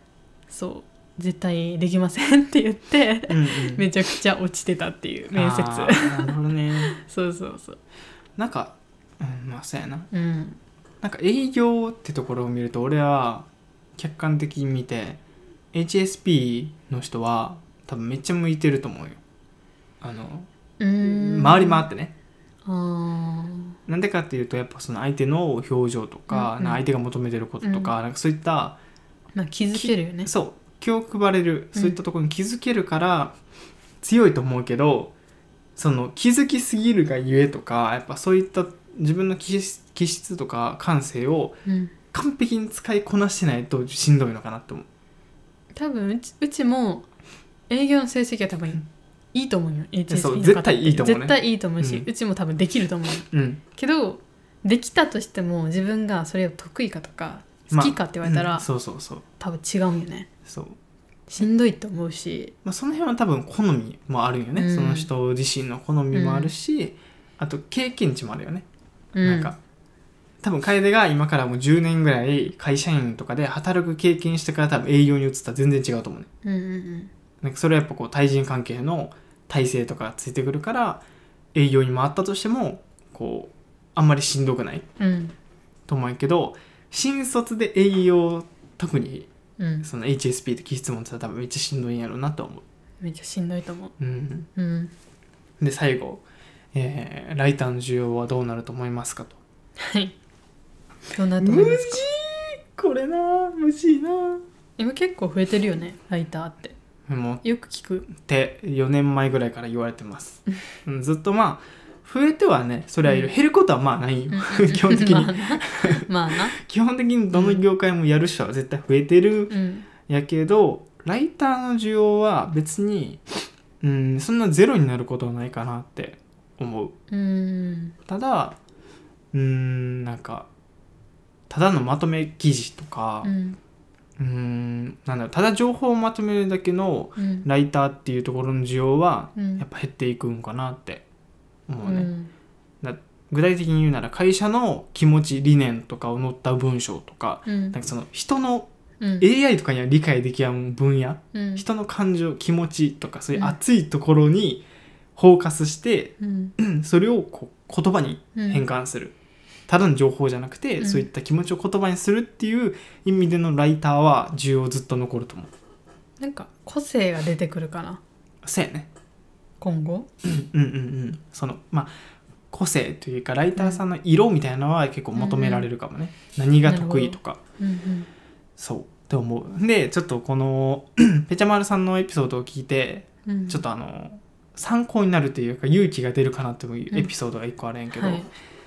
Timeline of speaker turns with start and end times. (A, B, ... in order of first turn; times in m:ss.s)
0:00.5-0:06.4 A
0:03.3-0:03.9 B
0:05.3-0:07.0 B
0:06.9-0:07.8 A
0:08.4-0:10.1 B
0:10.1-0:10.6 A
0:11.0-0:13.5 B
0:14.0-0:15.2 B
0:15.7-0:19.2 B
0:20.0-0:20.5 B
0:20.8-0:21.8 A
0:21.0-0:22.1 B
0:22.6-0:23.8 A
0:23.9-0:28.8 B
0:26.3-0:26.8 A
0:27.6-0:27.9 A
0:29.4-0:30.3 A
0:29.7-0:33.4 B
0:34.0-0:35.1 B
0:35.8-0:41.6 B
0:41.7-0:41.9 A
0:42.1-0:44.9 B
0:45.7-0:47.1 A
0:47.7-0:58.7 A
0:50.1-0:52.1 B
0:53.3-0:53.6 B
0:57.7-0:59.2 B
0:59.4-1:00.3 A
1:00.5-1:00.8 B
1:01.3-1:02.5 A
1:02.6-1:08.7 B
1:04.6-1:05.1 A
1:06.1-1:06.5 A
1:09.2-1:09.5 A
1:09.2-1:09.6 B
1:10.4-1:16.3 B
1:16.4-1:17.1 A
1:17.4-1:21.0 B
1:21.6-1:24.9 B
1:25.0-1:25.4 A
1:25.9-1:29.3 B
1:29.6-1:29.9 A
1:29.8-1:32.6 B
1:33.0-1:34.0 A
1:34.0-1:34.5 B
1:34.6-1:34.9 A
1:35.6-1:39.4 B
1:39.8-1:40.2 A
1:41.1-1:42.0 A
1:41.4-1:44.4 B
1:44.8-1:46.8 A
1:47.1-1:47.4 B
1:47.4-1:48.1 A
1:48.1-2:03.2 B
1:53.0-1:53.3 A
1:54.3-1:56.6 A
1:57.3-1:57.6 A
1:59.5-1:59.9 A
2:03.8-2:06.9 B
2:07.1-2:08.0 A
2:08.1-2:08.6 B
2:09.3-2:10.5 B
2:11.5-2:13.3 B
2:13.2-2:13.6 A
2:14.2-2:21.0 B
2:17.2-2:17.5 A
2:19.4-2:19.6 A
2:21.7-2:22.1 B
2:21.8-2:22.3 A
2:22.8-2:28.7 B
2:27.5-2:27.8 A
2:29.0-2:29.3 A
2:29.2-2:34.6 B
2:31.3-2:31.6 A
2:35.2-2:39.1 B
2:36.2-2:36.6 A
2:38.4-2:38.6 A
2:39.7-2:45.5 B
2:40.8-2:41.1 A
2:46.2-2:48.0 A
2:48.4-2:48.9 B
2:49.6-2:50.1 A
2:50.2-2:51.9 B
2:52.5-2:57.4 B
2:53.6-2:53.8 A
2:55.2-2:55.7 A
2:56.6-2:58.1 A
2:58.6-3:08.3 B
3:03.3-3:03.6 A
3:08.0-3:08.3 A